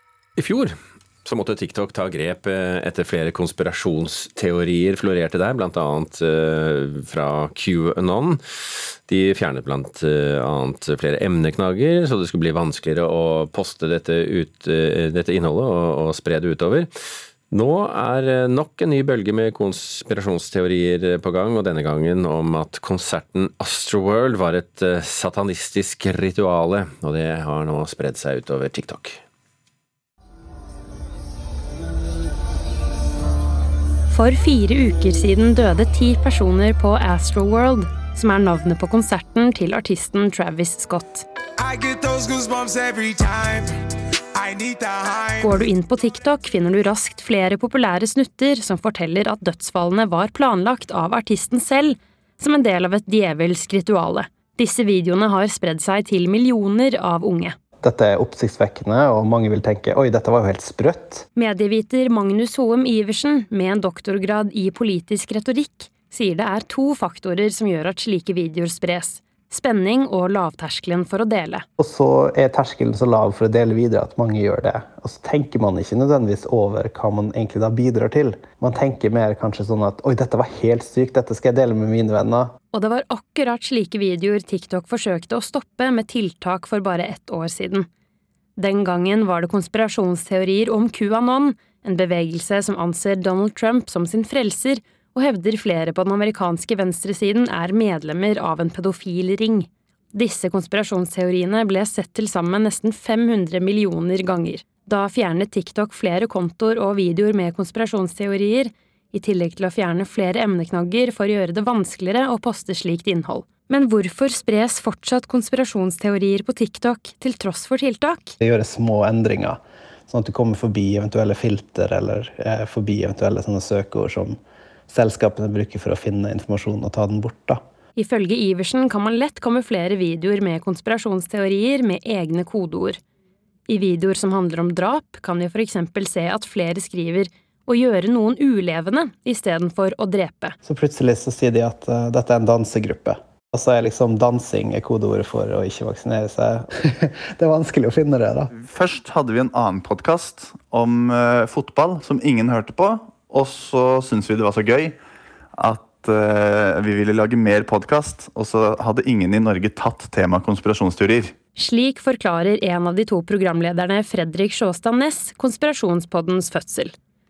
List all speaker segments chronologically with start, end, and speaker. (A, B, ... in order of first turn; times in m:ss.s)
0:00.4-0:08.4 A
0:09.0-0:16.9 A
0:17.5-0:29.2 A
0:34.1-0:41.2 B
0:41.6-0:45.6 C
0:45.4-0:57.5 B
0:57.8-1:01.3 D
1:01.3-1:11.6 B
1:11.8-1:22.5 D
1:22.7-1:27.9 B
1:28.6-1:58.4 B
1:58.4-2:04.4 D
2:04.9-2:07.6 D
2:08.0-2:13.0 B
2:13.7-2:20.6 B
2:20.6-2:28.5 D
2:28.5-2:35.0 E
2:35.6-2:41.4 E
2:41.6-2:46.9 B